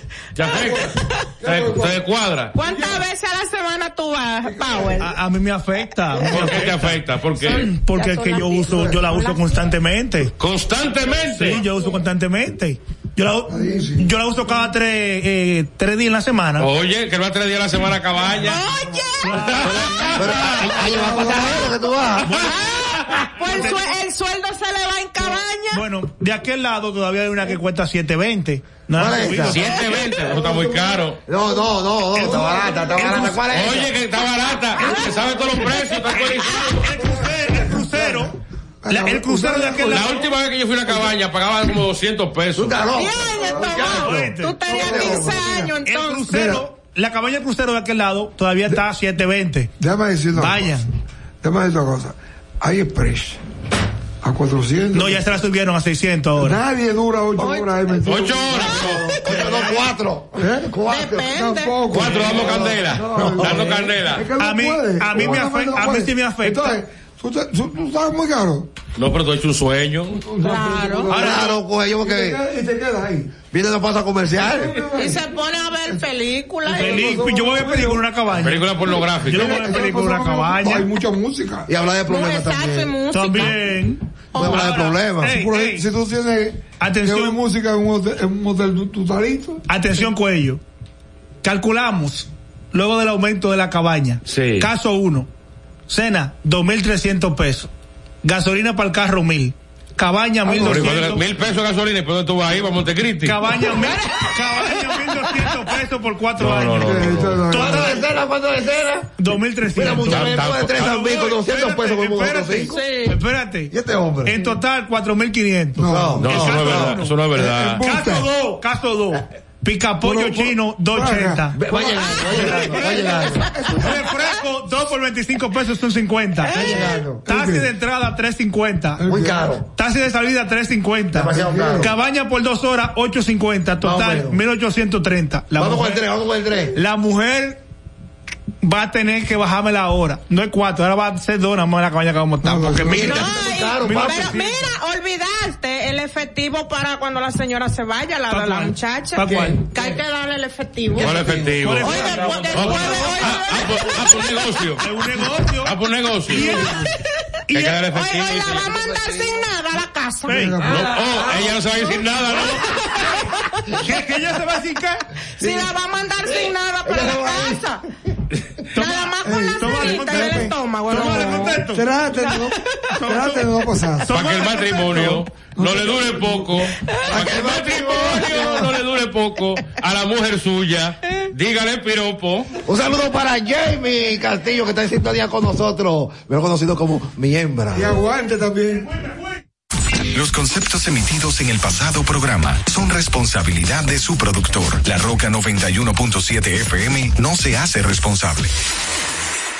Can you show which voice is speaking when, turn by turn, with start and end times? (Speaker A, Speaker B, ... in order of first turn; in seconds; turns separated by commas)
Speaker A: 0.3-2.5, Speaker B: 1.4-2.0, Speaker C: 2.5-5.1, Speaker B: 2.5-3.0, Speaker B: 4.4-5.1, Speaker D: 5.0-10.3, Speaker A: 6.3-7.7, Speaker C: 7.5-9.5, Speaker B: 8.7-9.0, Speaker A: 10.4-11.6, Speaker D: 11.3-16.7, Speaker B: 13.5-14.1, Speaker A: 16.6-18.6, Speaker B: 18.3-19.0, Speaker C: 18.4-20.1, Speaker D: 19.2-20.3, Speaker A: 19.3-21.6, Speaker E: 20.1-22.4, Speaker B: 20.6-21.7, Speaker D: 22.2-23.8, Speaker C: 22.4-25.9, Speaker A: 22.8-23.3, Speaker D: 25.7-29.7, Speaker E: 28.9-29.6, Speaker A: 29.4-31.2, Speaker B: 29.8-33.4, Speaker E: 31.3-33.9, Speaker A: 33.0-36.9, Speaker C: 34.8-35.8, Speaker D: 36.1-38.3, Speaker B: 36.9-40.3, Speaker D: 38.9-40.1, Speaker A: 39.9-43.1, Speaker E: 42.5-45.3, Speaker C: 42.9-46.4, Speaker B: 43.3-44.0, Speaker D: 43.9-49.7, Speaker B: 44.7-45.7, Speaker B: 46.3-46.6, Speaker B: 49.8-50.8, Speaker D: 50.3-50.9, Speaker B: 51.4-53.4, Speaker B: 54.2-55.3, Speaker D: 54.9-56.6, Speaker B: 56.4-58.7, Speaker C: 57.4-57.7, Speaker A: 58.0-59.7, Speaker C: 58.5-59.7, Speaker E: 58.6-61.3, Speaker B: 60.4-68.7, Speaker C: 60.9-61.8, Speaker A: 61.9-64.3, Speaker E: 63.1-63.7, Speaker D: 64.3-66.8, Speaker A: 69.0-70.2, Speaker B: 70.1-73.3, Speaker C: 70.4-71.1, Speaker E: 71.1-72.4, Speaker D: 71.1-71.5, Speaker E: 73.5-74.8, Speaker B: 74.3-76.0, Speaker C: 74.9-77.1, Speaker B: 76.6-78.1, Speaker D: 76.7-80.9, Speaker A: 78.3-79.6, Speaker B: 78.9-81.7, Speaker E: 81.7-83.0, Speaker C: 82.1-83.8, Speaker D: 83.1-85.8, Speaker C: 84.3-85.0, Speaker E: 84.3-85.3, Speaker B: 85.2-89.6, Speaker D: 86.8-87.4, Speaker D: 89.7-90.6, Speaker D: 91.4-95.3, Speaker A: 94.2-94.7, Speaker D: 95.9-97.7, Speaker D: 98.2-101.2, Speaker E: 100.5-100.8, Speaker A: 100.5-103.6, Speaker D: 103.2-108.0, Speaker A: 106.4-107.4, Speaker B: 106.7-108.0, Speaker E: 107.5-112.8, Speaker D: 109.2-113.7, Speaker A: 110.1-111.0, Speaker C: 112.7-113.2, Speaker E: 113.7-114.3, Speaker D: 114.2-117.1, Speaker B: 115.8-116.6, Speaker E: 115.8-117.0, Speaker A: 116.2-117.8, Speaker B: 117.3-118.3, Speaker D: 117.8-121.6, Speaker B: 120.0-123.1, Speaker E: 121.5-123.7, Speaker D: 122.3-123.1, Speaker D: 123.7-129.0, Speaker C: 126.4-127.0, Speaker E: 126.5-127.2, Speaker B: 127.2-127.7, Speaker B: 129.0-129.5, Speaker E: 129.1-129.7, Speaker D: 129.7-136.0, Speaker E: 131.1-131.9, Speaker B: 131.3-131.9, Speaker E: 133.8-134.4, Speaker E: 135.6-136.8, Speaker D: 136.7-137.6, Speaker D: 138.6-144.7, Speaker E: 142.4-144.4, Speaker B: 142.4-143.1, Speaker C: 143.0-151.2, Speaker D: 148.3-149.7, Speaker B: 149.3-149.9, Speaker B: 150.9-152.6, Speaker A: 150.9-154.9, Speaker D: 151.6-153.3, Speaker C: 151.8-154.7, Speaker D: 154.8-156.8, Speaker A: 155.6-156.6, Speaker D: 157.5-157.8, Speaker A: 157.5-158.8, Speaker C: 157.8-160.5, Speaker E: 159.0-159.2, Speaker D: 160.3-160.6, Speaker B: 160.3-161.4, Speaker A: 160.6-163.2, Speaker C: 163.0-163.3, Speaker D: 163.8-165.0, Speaker C: 165.4-167.8, Speaker E: 165.4-165.7, Speaker E: 166.2-167.7, Speaker D: 168.7-171.8, Speaker C: 168.7-171.6, Speaker B: 169.2-176.7, Speaker C: 172.4-172.9, Speaker D: 172.9-175.0, Speaker A: 174.1-182.5, Speaker E: 177.1-178.6, Speaker E: 182.6-187.9, Speaker B: 187.7-188.9, Speaker F: 190.1-198.5